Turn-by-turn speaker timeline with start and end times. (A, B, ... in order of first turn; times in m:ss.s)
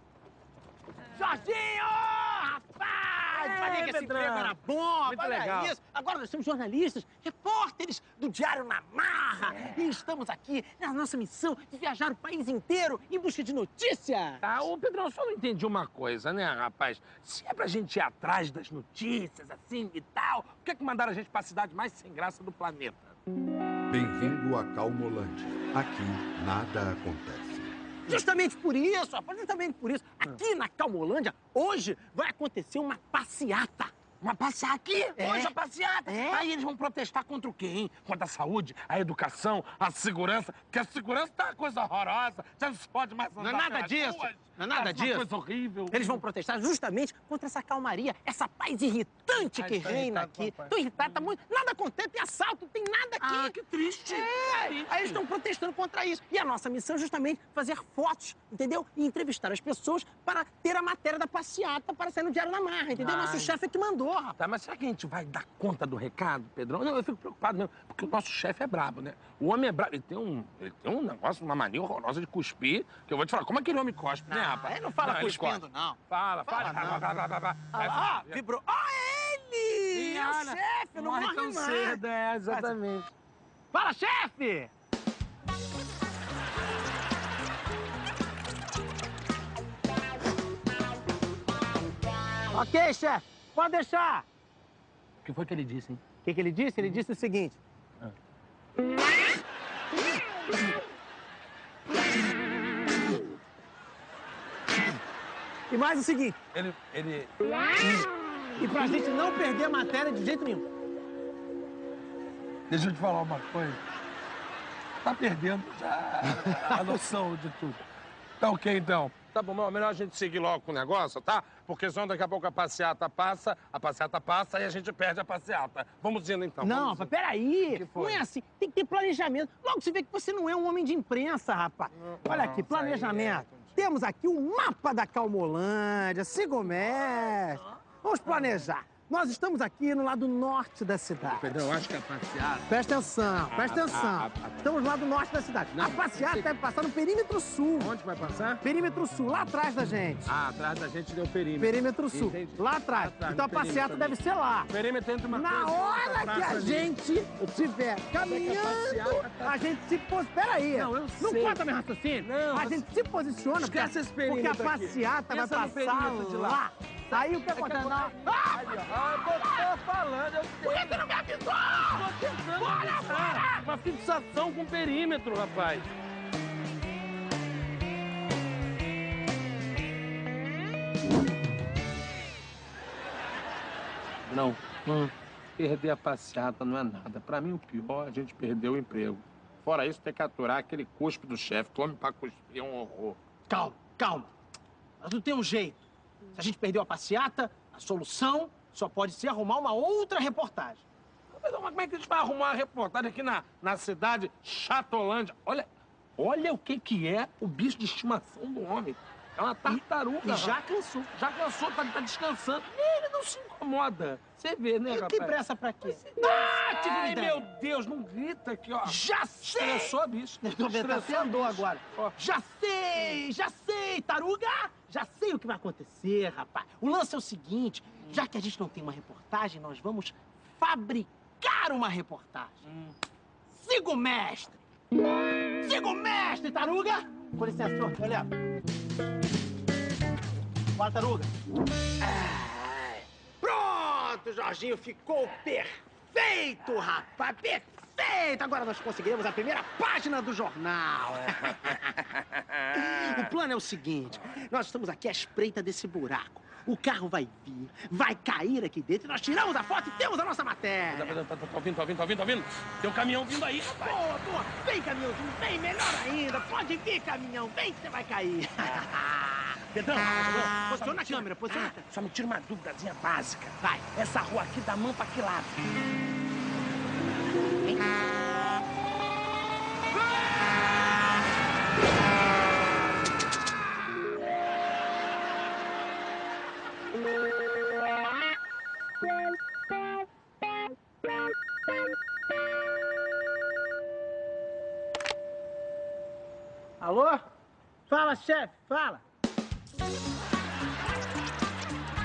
0:01.1-0:14.4 A
0:03.3-0:05.7 B
0:09.5-0:09.9 B
0:14.4-0:23.1 B
0:23.9-0:27.7 C
0:28.0-0:33.9 A
0:34.2-0:46.2 B
0:35.2-0:35.5 A
0:36.0-0:36.4 A
0:43.4-0:45.3 A
0:45.9-0:53.6 A
0:49.4-0:51.2 B
0:53.2-0:55.2 B
0:54.1-1:04.4 A
1:03.0-1:03.6 B
1:04.4-1:18.4 B
1:14.3-1:17.0 A
1:17.7-1:22.7 A
1:19.9-1:23.1 B
1:23.7-1:24.7 A
1:32.5-1:34.2 A
1:35.2-1:36.0 B
1:36.2-1:37.6 A
1:45.7-1:46.4 A
1:46.5-1:48.0 B
1:48.6-1:50.6 A
1:52.7-1:53.8 B
1:55.0-1:57.8 B
1:56.4-1:56.8 A
1:58.4-2:07.1 B
2:06.6-2:21.7 A
2:07.7-2:08.2 B
2:12.2-2:13.7 B
2:18.2-2:18.6 B
2:21.2-2:22.6 B
2:22.7-2:27.9 A
2:23.5-2:24.6 B
2:25.7-2:26.5 B
2:27.8-2:28.6 B
2:28.6-2:30.3 A
2:30.2-2:34.2 B
2:31.6-2:34.7 A
2:34.7-2:37.4 B
2:35.3-2:49.8 A
2:38.2-2:39.6 B
2:40.7-2:41.6 B
2:42.2-2:42.8 B
2:43.6-2:51.0 B
2:50.6-2:53.6 A
2:51.7-2:55.9 B
3:04.2-3:13.2 B
3:13.5-3:14.3 A
3:15.0-3:15.8 A
3:16.3-3:20.8 A
3:21.3-3:25.7 B
3:26.2-3:30.6 B
3:29.6-3:31.1 A
3:31.1-3:42.1 B
3:34.9-3:37.4 A
3:38.8-3:52.6 A
3:53.5-3:54.6 A
3:55.6-3:58.3 A
4:00.8-4:01.3 A
4:02.2-4:02.7 B
4:03.4-4:11.8 A
4:11.4-4:13.2 B
4:12.7-4:21.2 A
4:20.9-4:24.0 B
4:23.7-4:31.8 A
4:29.7-4:35.6 B
4:33.6-4:33.9 A
4:56.8-4:57.2 A
4:57.9-4:59.0 A